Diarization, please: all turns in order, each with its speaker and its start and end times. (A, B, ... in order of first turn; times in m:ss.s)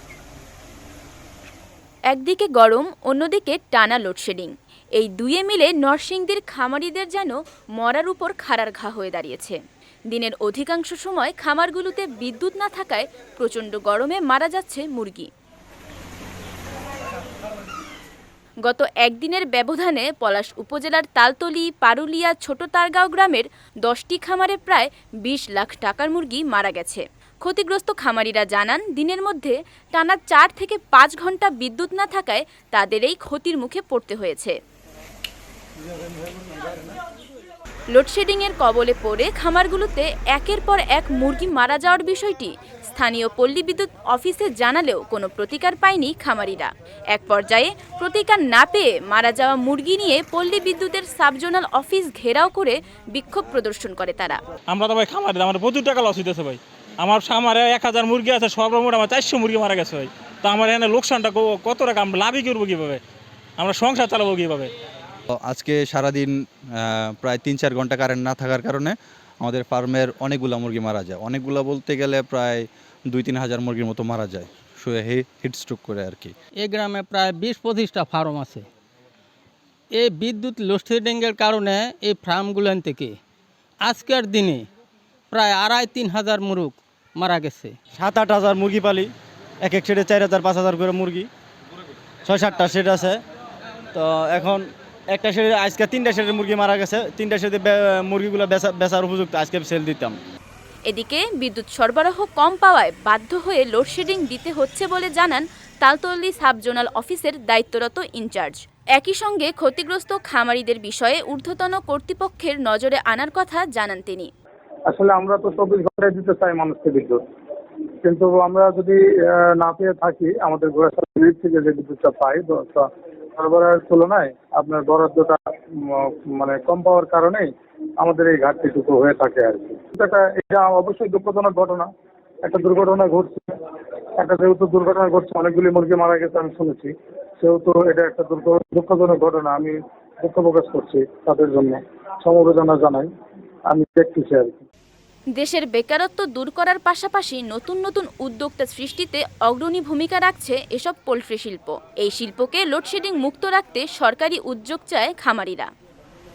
0:02.1-0:09.6 A
0:10.1-0:15.3 A
0:18.7-0:34.6 A
0:37.9-0:54.4 A
0:54.7-1:03.0 B
1:03.6-1:04.7 B
1:05.3-1:16.3 C
1:16.6-1:18.7 D
1:19.9-1:23.2 D
1:23.8-1:24.7 D
1:25.3-1:27.8 D
1:28.0-1:31.3 E
1:32.3-1:33.2 E
1:33.9-1:40.2 E
1:40.9-1:54.3 A
1:54.9-1:57.2 F
1:58.0-2:07.5 F
2:08.0-2:11.9 F
2:12.4-2:13.5 F
2:14.2-2:23.1 F
2:23.7-2:24.7 F
2:25.4-2:35.7 A